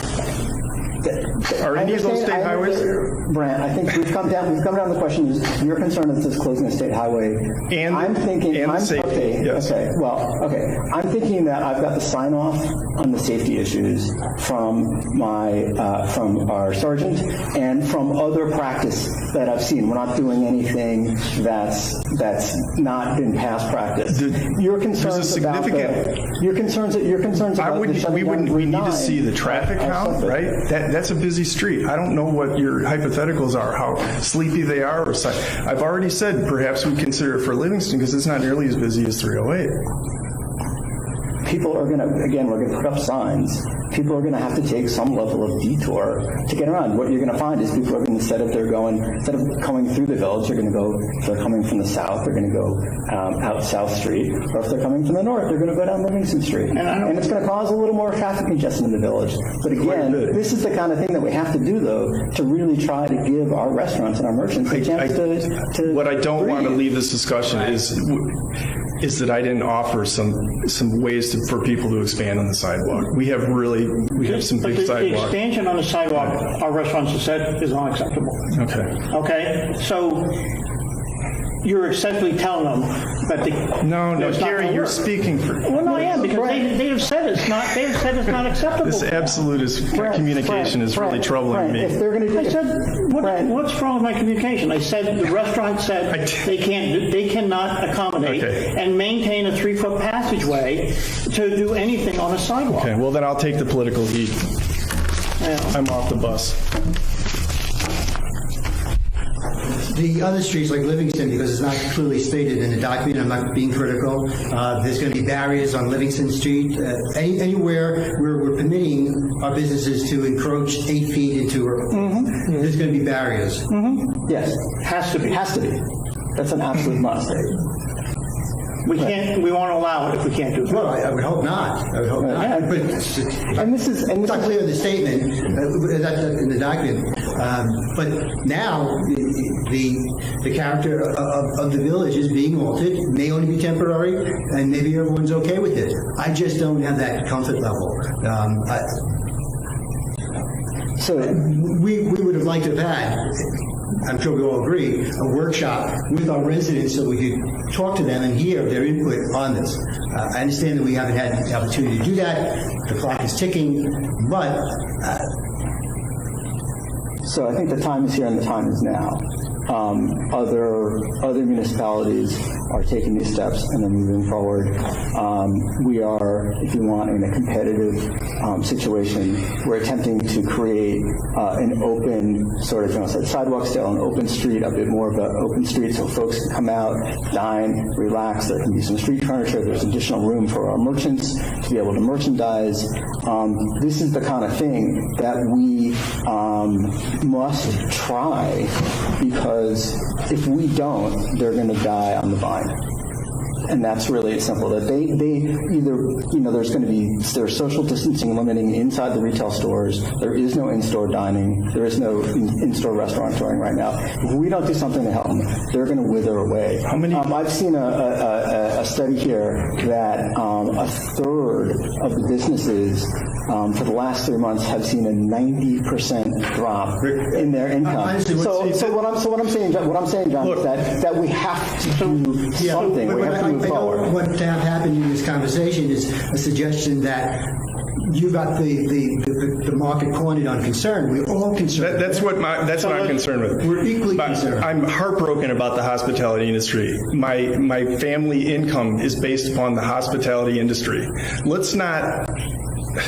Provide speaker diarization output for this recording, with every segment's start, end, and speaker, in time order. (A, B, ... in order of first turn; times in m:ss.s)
0:01.0-0:30.6 A
0:01.6-0:03.0 B
0:07.7-0:09.7 B
0:24.1-0:26.1 B
0:27.6-0:39.8 B
0:41.4-1:06.8 A
0:56.7-0:57.3 C
0:59.7-1:00.4 B
1:04.7-1:08.4 B
1:09.0-1:15.4 B
1:14.2-1:18.5 C
1:18.5-1:19.0 B
1:19.1-1:20.4 C
1:21.6-1:29.4 C
1:23.8-1:26.3 B
1:25.8-1:26.7 A
1:28.8-1:32.0 B
1:29.9-1:33.6 A
1:32.3-1:42.9 C
1:36.1-1:36.5 B
1:38.2-1:38.7 B
1:42.7-1:44.5 B
1:45.4-1:45.8 C
1:45.7-1:46.6 B
1:49.8-2:03.7 D
2:01.9-2:02.6 A
2:03.7-2:07.6 A
2:04.8-2:05.4 C
2:08.8-2:11.0 C
2:10.7-2:29.0 D
2:12.2-2:12.9 A
2:13.5-2:14.7 A
2:31.0-2:31.4 A
2:31.2-2:45.3 D
2:47.2-3:22.8 A
3:23.7-3:54.1 A
3:36.9-3:37.3 B
3:47.0-3:48.9 D
3:50.4-3:50.8 B
3:51.9-3:52.8 C
3:52.6-4:02.3 D
4:01.8-4:12.4 B
4:02.9-4:04.7 D